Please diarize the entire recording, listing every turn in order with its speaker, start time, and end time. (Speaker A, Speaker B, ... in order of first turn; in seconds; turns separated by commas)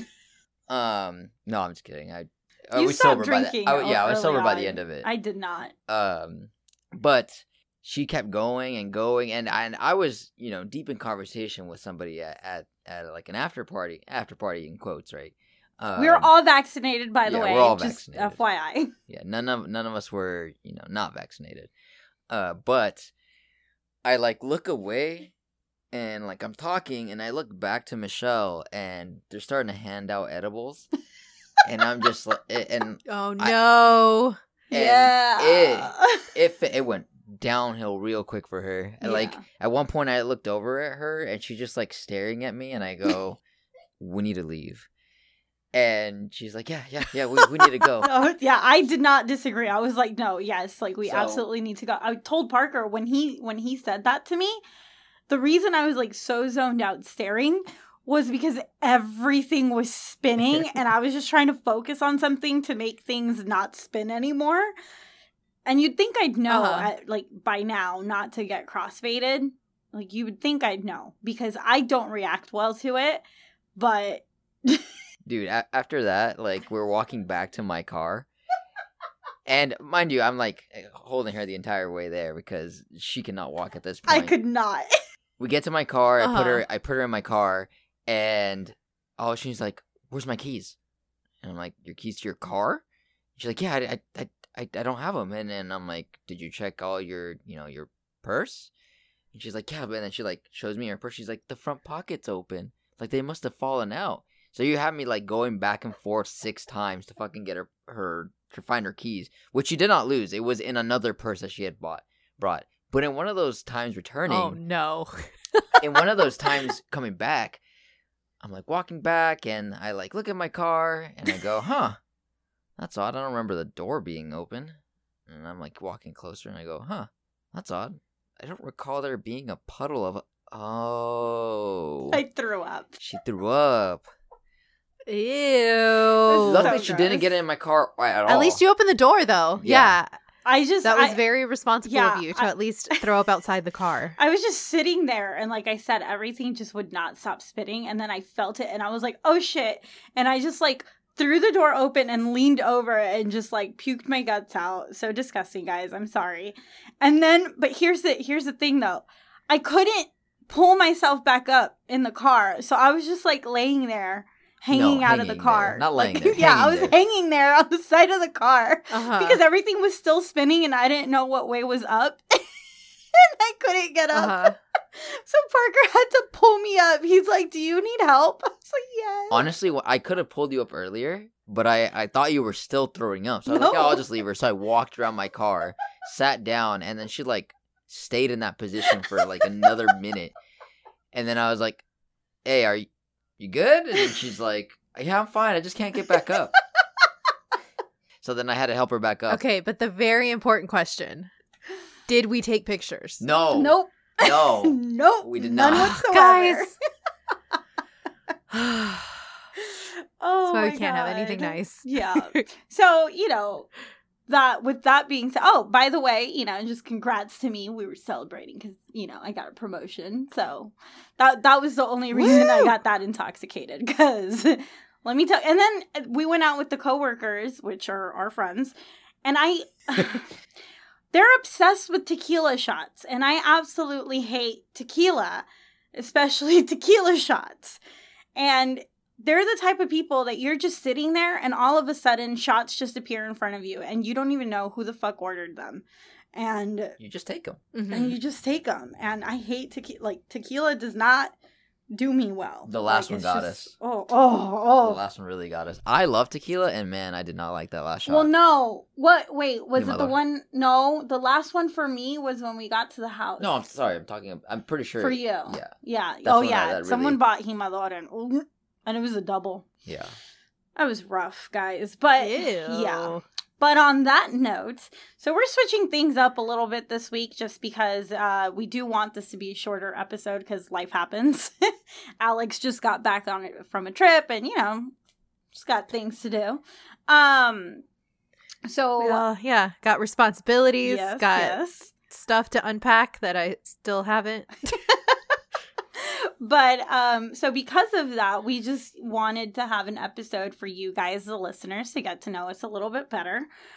Speaker A: 0.7-5.1, Speaker B: 2.7-5.7, Speaker A: 5.9-16.3, Speaker B: 15.9-18.9, Speaker A: 17.2-18.4, Speaker A: 19.1-21.7, Speaker A: 22.3-23.1, Speaker A: 24.0-25.3, Speaker A: 25.9-30.9, Speaker A: 31.6-33.5, Speaker C: 33.1-34.4, Speaker B: 34.7-36.2, Speaker A: 34.7-43.4, Speaker B: 39.0-39.4, Speaker A: 44.0-44.9, Speaker A: 45.7-48.1, Speaker B: 48.0-54.6, Speaker A: 51.0-51.4, Speaker B: 55.3-64.7, Speaker B: 65.7-73.2, Speaker C: 66.5-66.9, Speaker B: 73.8-74.9, Speaker A: 75.2-78.3, Speaker A: 79.5-84.3, Speaker B: 84.1-84.9, Speaker A: 85.4-90.8, Speaker C: 86.2-86.6, Speaker A: 91.4-92.8, Speaker A: 93.3-98.7, Speaker A: 99.3-114.6, Speaker C: 114.3-115.9, Speaker A: 115.8-117.6, Speaker A: 118.4-122.0, Speaker A: 122.8-124.8, Speaker A: 125.3-132.2, Speaker B: 132.1-133.0, Speaker A: 133.0-134.0, Speaker C: 135.1-136.8, Speaker B: 136.2-137.3, Speaker A: 136.4-138.6, Speaker C: 138.3-140.1, Speaker A: 139.6-140.0, Speaker B: 140.4-141.2, Speaker C: 140.8-144.2, Speaker B: 141.8-143.1, Speaker B: 144.2-172.6, Speaker A: 164.7-167.0, Speaker C: 168.9-169.4, Speaker B: 173.1-179.4, Speaker C: 174.1-174.6, Speaker A: 179.3-190.3, Speaker B: 183.5-184.0, Speaker A: 191.1-191.8, Speaker A: 192.4-192.9, Speaker A: 193.4-196.5, Speaker A: 198.2-199.4, Speaker C: 199.3-201.3, Speaker C: 202.1-203.2, Speaker A: 203.2-206.0, Speaker B: 203.5-206.7, Speaker C: 205.7-206.7, Speaker C: 208.5-209.2, Speaker B: 209.6-213.7, Speaker C: 210.5-212.4, Speaker B: 214.3-230.3, Speaker C: 222.1-222.7, Speaker B: 231.1-237.8, Speaker B: 238.3-245.8, Speaker B: 246.3-246.9, Speaker A: 247.0-247.6, Speaker C: 247.7-248.1, Speaker B: 247.9-251.3, Speaker B: 251.9-255.0, Speaker A: 252.7-253.7, Speaker A: 254.8-258.3, Speaker B: 258.1-263.5, Speaker A: 259.8-260.2, Speaker A: 263.4-267.2, Speaker B: 265.0-269.6, Speaker A: 269.9-270.1, Speaker B: 270.8-284.9, Speaker C: 272.2-273.2, Speaker B: 285.5-287.8, Speaker B: 288.6-289.2, Speaker C: 289.0-291.6, Speaker B: 290.8-291.9, Speaker C: 292.1-294.7, Speaker B: 294.9-295.2, Speaker B: 295.9-303.5